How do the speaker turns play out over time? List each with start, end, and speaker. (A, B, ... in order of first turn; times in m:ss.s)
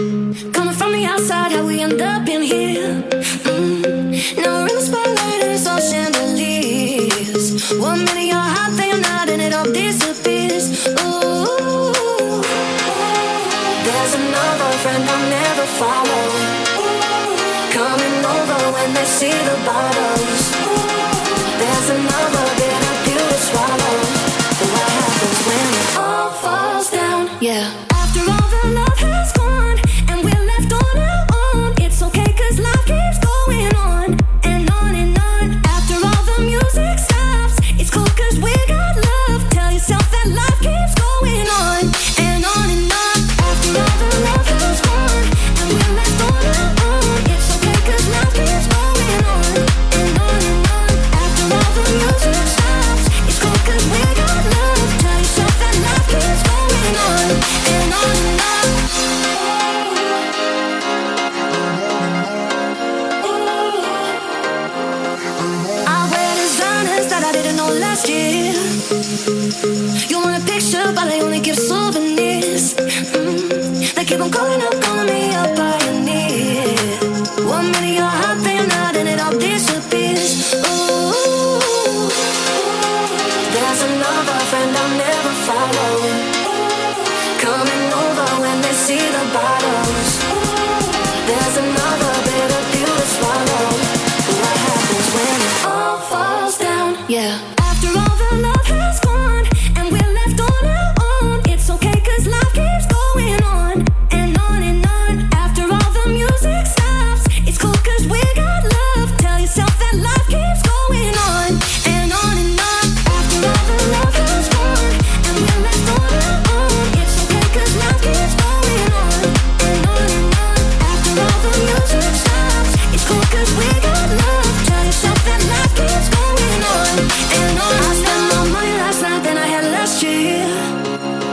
0:00.5-0:58.9 A
0:59.8-1:00.1 A
1:03.5-1:04.1 A
1:05.8-1:08.9 A
1:10.0-1:22.3 A
1:23.3-1:26.4 A
1:27.4-2:10.8 A